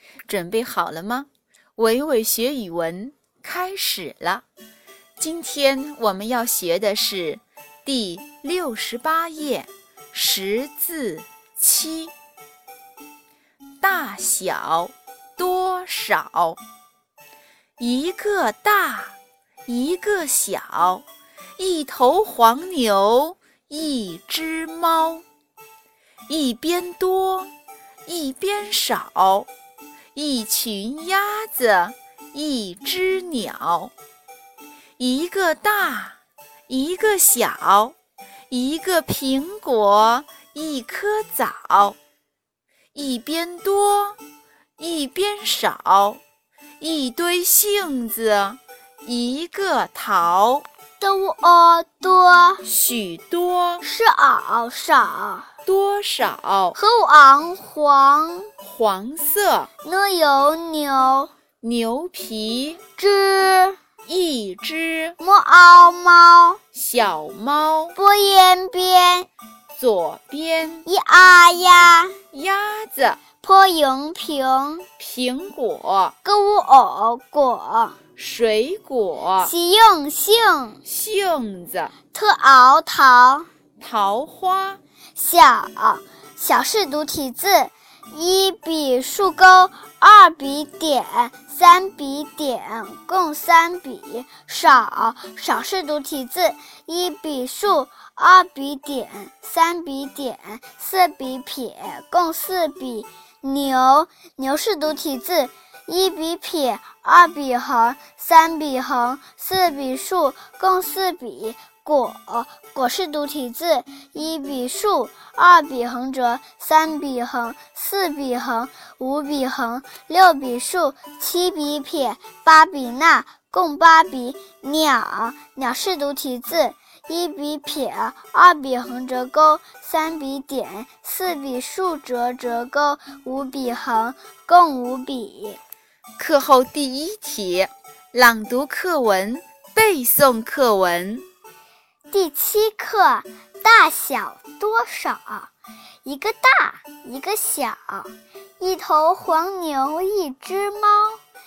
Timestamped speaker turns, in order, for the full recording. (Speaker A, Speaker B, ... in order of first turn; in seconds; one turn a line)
Speaker A: 0.3-4.4
Speaker A: 5.2-12.1
Speaker A: 13.8-16.6
Speaker A: 17.8-21.1
Speaker A: 21.6-25.2
Speaker A: 26.3-27.5
Speaker A: 28.1-29.5
Speaker A: 30.1-33.9
Speaker A: 35.0-36.2
Speaker A: 36.7-38.0
Speaker A: 38.5-42.0
Speaker A: 42.9-44.2
Speaker A: 44.8-46.2
Speaker A: 46.8-50.7
Speaker B: 51.0-52.6
Speaker A: 52.6-53.9
Speaker B: 53.8-55.5
Speaker A: 55.7-56.8
Speaker B: 56.7-58.5
Speaker A: 58.6-59.7
Speaker B: 59.8-61.3
Speaker A: 61.6-62.8
Speaker B: 63.0-63.8
Speaker A: 64.1-65.2
Speaker B: 65.2-66.6
Speaker A: 66.7-68.0
Speaker B: 68.0-69.3
Speaker A: 69.7-70.9
Speaker B: 70.8-72.2
Speaker A: 72.3-73.2
Speaker B: 73.4-74.9
Speaker A: 75.0-76.2
Speaker B: 76.2-78.0
Speaker A: 78.2-79.5
Speaker B: 79.4-80.8
Speaker A: 80.8-81.9
Speaker B: 82.1-83.5
Speaker A: 83.8-84.8
Speaker B: 85.2-135.6
Speaker A: 136.2-141.2
Speaker B: 142.1-145.5
Speaker B: 146.1-151.2